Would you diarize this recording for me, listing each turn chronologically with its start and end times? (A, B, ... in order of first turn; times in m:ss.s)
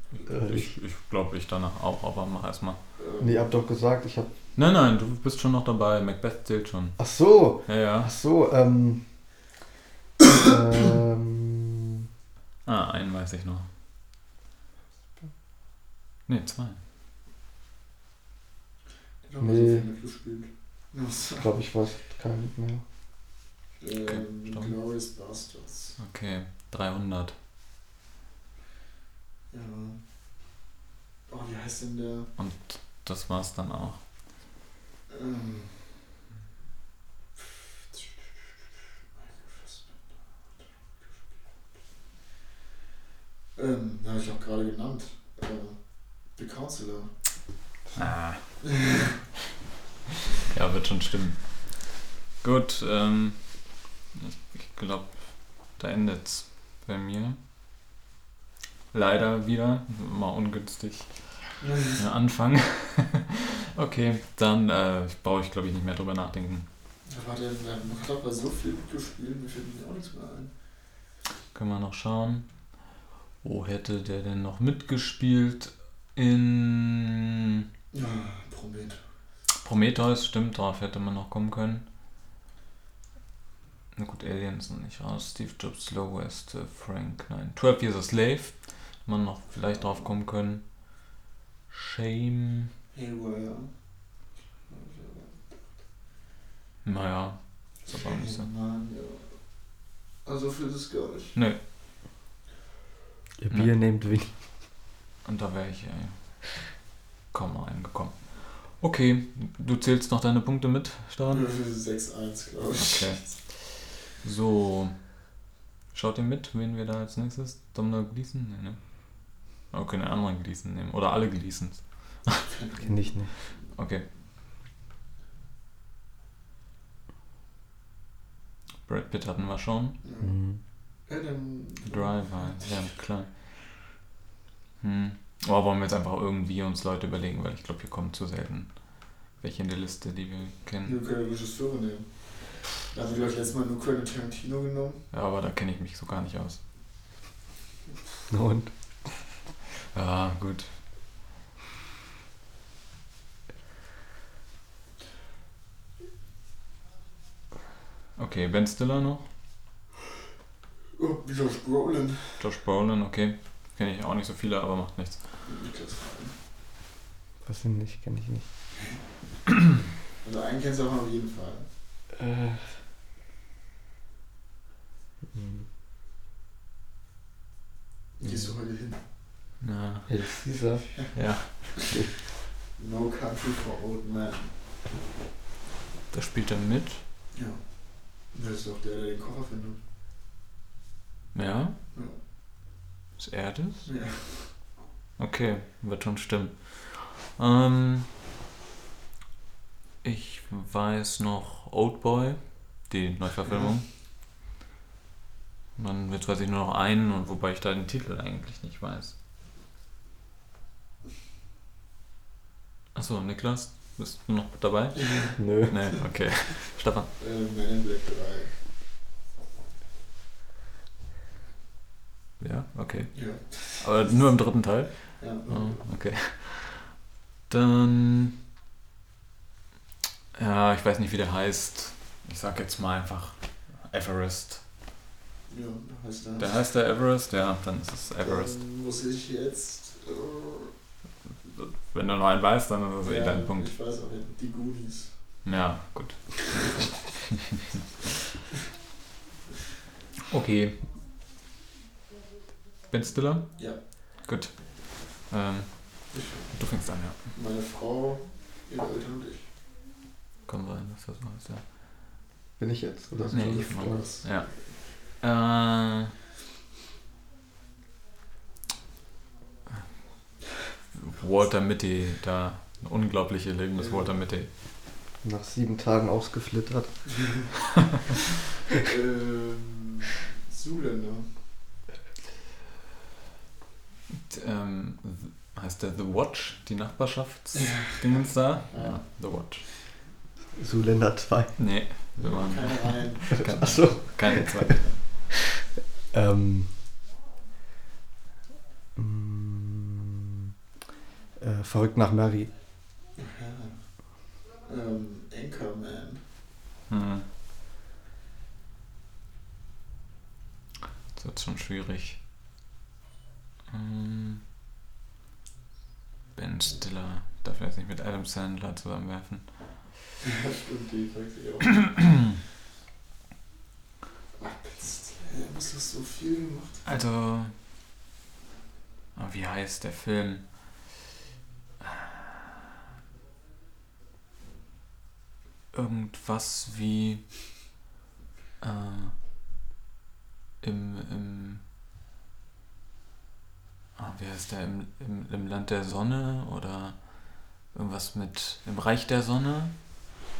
0:00.2-0:02.8 A
0:00.3-0:00.7 B
0:03.0-0:03.4 C
0:03.2-0:04.3 B
0:04.5-0:07.0 A
0:07.0-0:09.0 B
0:07.6-0:08.1 A
0:10.3-0:11.9 B
0:12.6-0:13.7 A
0:16.3-0:16.8 A
0:19.2-0:21.5 C
0:19.4-0:19.9 B
0:21.4-0:22.8 B
0:23.8-0:26.0 C
0:24.1-0:24.8 A
0:26.0-0:27.3 A
0:29.5-0:30.0 C
0:31.3-0:32.3 C
0:32.4-0:34.0 A
0:35.1-0:35.7 C
0:37.4-0:38.5 C
0:39.2-0:41.0 C
0:43.5-0:47.2 C
0:47.9-0:48.1 B
0:48.0-0:48.8 A
0:48.6-0:49.2 C
0:50.4-0:57.4 A
0:58.9-1:06.7 A
1:01.6-1:02.0 C
1:07.0-1:10.5 C
1:11.5-1:12.5 A
1:13.4-1:17.6 A
1:17.9-1:19.0 C
1:19.6-1:21.8 A
1:23.9-1:31.0 A
1:31.7-1:32.7 A
1:32.9-1:33.9 C
1:34.7-1:35.8 C
1:36.8-1:38.5 A
1:37.8-1:39.4 C
1:40.2-1:41.4 C
1:41.3-1:41.6 A
1:43.4-1:44.3 B
1:45.2-1:46.8 A
1:47.3-1:51.5 A
1:51.3-1:53.4 C
1:52.8-1:55.2 A
1:55.9-2:02.5 A
2:02.5-2:03.6 C
2:02.8-2:03.3 B
2:03.7-2:04.0 A
2:08.8-2:10.0 A
2:10.0-2:10.4 C
2:10.2-2:10.6 B
2:11.0-2:12.8 C
2:11.9-2:13.3 A
2:14.8-2:21.0 A
2:20.8-2:25.0 C
2:25.1-2:26.6 A
2:28.3-2:28.7 B
2:29.9-2:30.7 A
2:38.2-2:39.3 A
2:40.9-2:42.4 C
2:42.4-2:45.4 A
2:45.4-2:46.4 C
2:47.4-2:48.5 B
2:50.2-2:51.7 C
2:52.1-2:52.8 B
2:55.3-2:55.7 B
2:58.2-2:59.0 C
2:58.2-2:58.5 B
2:59.6-3:00.2 A
3:00.1-3:01.2 B
3:01.1-3:02.0 A
3:01.8-3:02.1 B
3:02.7-3:04.6 C
3:06.1-3:07.0 A
3:07.3-3:09.8 C
3:11.3-3:11.8 A
3:11.9-3:12.2 C
3:13.2-3:13.9 A
3:13.8-3:14.6 C
3:15.2-3:18.1 A
3:20.0-3:23.9 A
3:25.8-3:29.1 A
3:32.9-3:37.1 A
3:35.0-3:35.4 C
3:35.4-3:35.9 B
3:37.2-3:38.5 C
3:42.4-3:48.4 A
3:43.1-3:45.8 C
3:50.3-3:54.6 A
3:55.5-3:56.5 C
3:56.4-3:58.6 A
3:58.2-4:00.7 C
4:01.4-4:03.7 A
4:03.0-4:05.4 C
4:05.4-4:07.3 A
4:06.6-4:06.9 C
4:10.3-4:10.8 A
4:12.9-4:17.2 A
4:16.1-4:16.5 C
4:17.2-4:19.5 C
4:20.5-4:21.6 A
4:22.6-4:24.1 B
4:23.2-4:24.8 C
4:23.3-4:26.1 A
4:30.9-4:34.5 A
4:33.8-4:34.1 C
4:35.2-4:37.0 B
4:37.1-4:37.5 C
4:38.8-4:41.3 C
4:44.3-4:49.7 A
4:47.6-4:49.0 C
4:50.6-4:51.6 B
4:51.6-4:55.3 A
4:52.2-4:53.6 C
4:53.3-4:54.7 B
4:56.1-4:56.8 B
4:59.0-5:00.5 B
5:01.4-5:02.5 B
5:03.1-5:06.2 C
5:06.9-5:07.3 A
5:11.1-5:12.2 A
5:13.7-5:14.4 A
5:16.3-5:19.9 A
5:20.2-5:22.0 C
5:24.4-5:26.9 C
5:26.8-5:27.5 A
5:29.1-5:30.7 A
5:31.8-5:32.1 A
5:35.7-5:37.3 A
5:38.6-5:39.1 A
5:40.6-5:41.6 A
5:44.0-5:49.7 A